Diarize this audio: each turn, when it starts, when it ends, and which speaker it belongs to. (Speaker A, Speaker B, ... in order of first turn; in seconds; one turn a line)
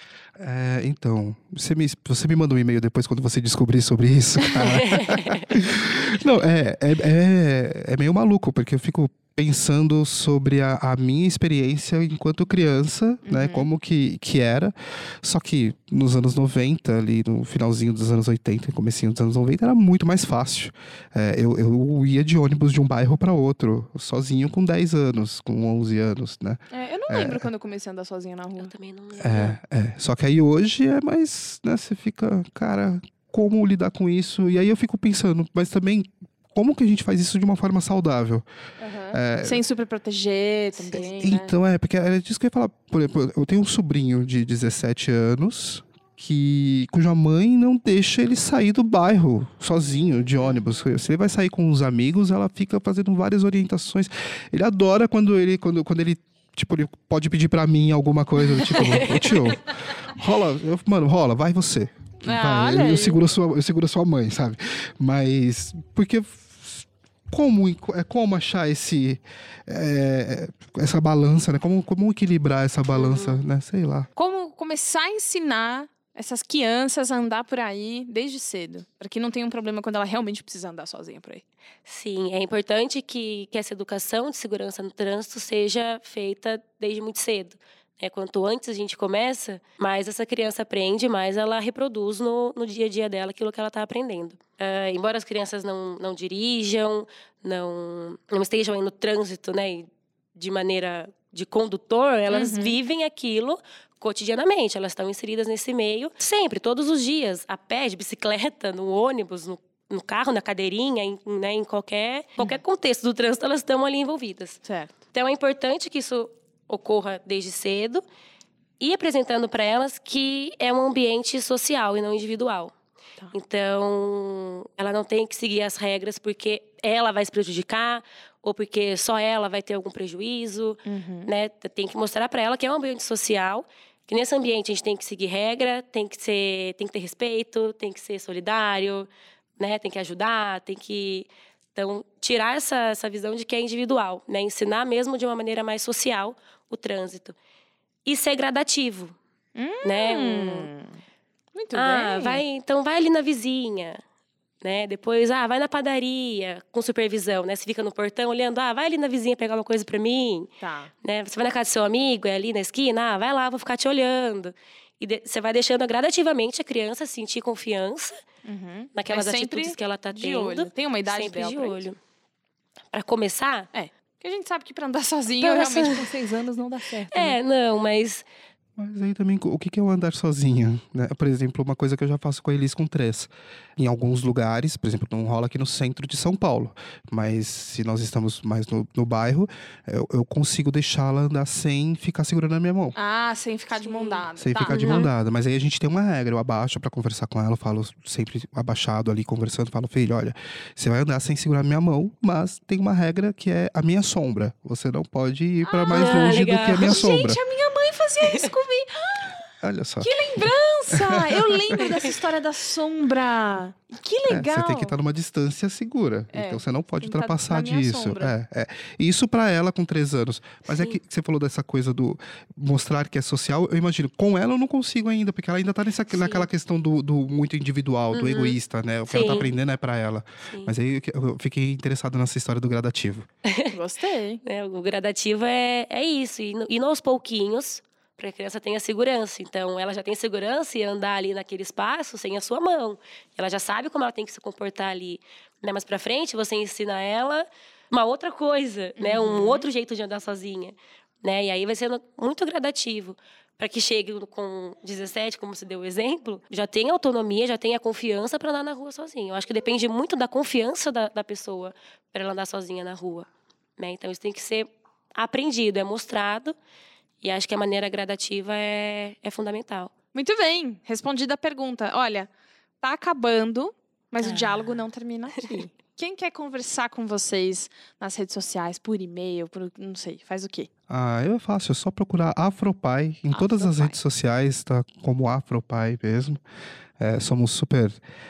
Speaker A: 0.4-27.5
Speaker B: 4.8-5.4
Speaker C: 13.2-13.7
Speaker C: 26.7-28.7
Speaker B: 28.6-29.6
Speaker A: 29.2-38.5
Speaker C: 38.8-41.5
Speaker A: 39.1-39.6
Speaker A: 40.9-74.1
Speaker C: 50.4-50.8
Speaker B: 58.8-59.6
Speaker C: 62.2-63.2
Speaker B: 73.1-73.4
Speaker C: 74.2-81.4
Speaker B: 81.9-118.0
Speaker C: 102.3-102.8
Speaker C: 114.7-115.0
Speaker B: 118.8-122.7
Speaker B: 123.3-147.4
Speaker C: 130.9-131.3
Speaker B: 148.1-149.2
Speaker C: 149.6-151.0
Speaker B: 149.8-150.7
Speaker C: 151.6-152.4
Speaker B: 151.7-154.0
Speaker B: 154.6-160.5
Speaker C: 160.6-160.9
Speaker B: 161.0-168.2
Speaker C: 168.4-171.9
Speaker B: 168.9-172.0
Speaker B: 172.9-173.7
Speaker C: 173.7-177.4
Speaker B: 175.4-176.1
Speaker B: 177.1-178.3
Speaker A: 178.8-193.0
Speaker C: 193.0-195.1
Speaker B: 193.8-195.1
Speaker A: 194.4-207.4
Speaker C: 205.6-209.5
Speaker B: 205.9-207.1
Speaker A: 209.6-210.1
Speaker C: 210.0-214.9
Speaker A: 210.9-211.8
Speaker A: 214.3-233.3
Speaker C: 216.3-218.3
Speaker B: 220.7-221.0
Speaker B: 226.1-226.4
Speaker B: 228.1-229.5
Speaker B: 233.5-233.7
Speaker C: 233.7-234.4
Speaker B: 234.4-266.6
Speaker C: 249.0-249.7
Speaker B: 267.2-269.9
Speaker C: 270.1-272.3
Speaker C: 272.8-280.7
Speaker B: 274.2-274.7
Speaker A: 280.9-286.4
Speaker C: 283.3-284.0
Speaker A: 287.0-288.0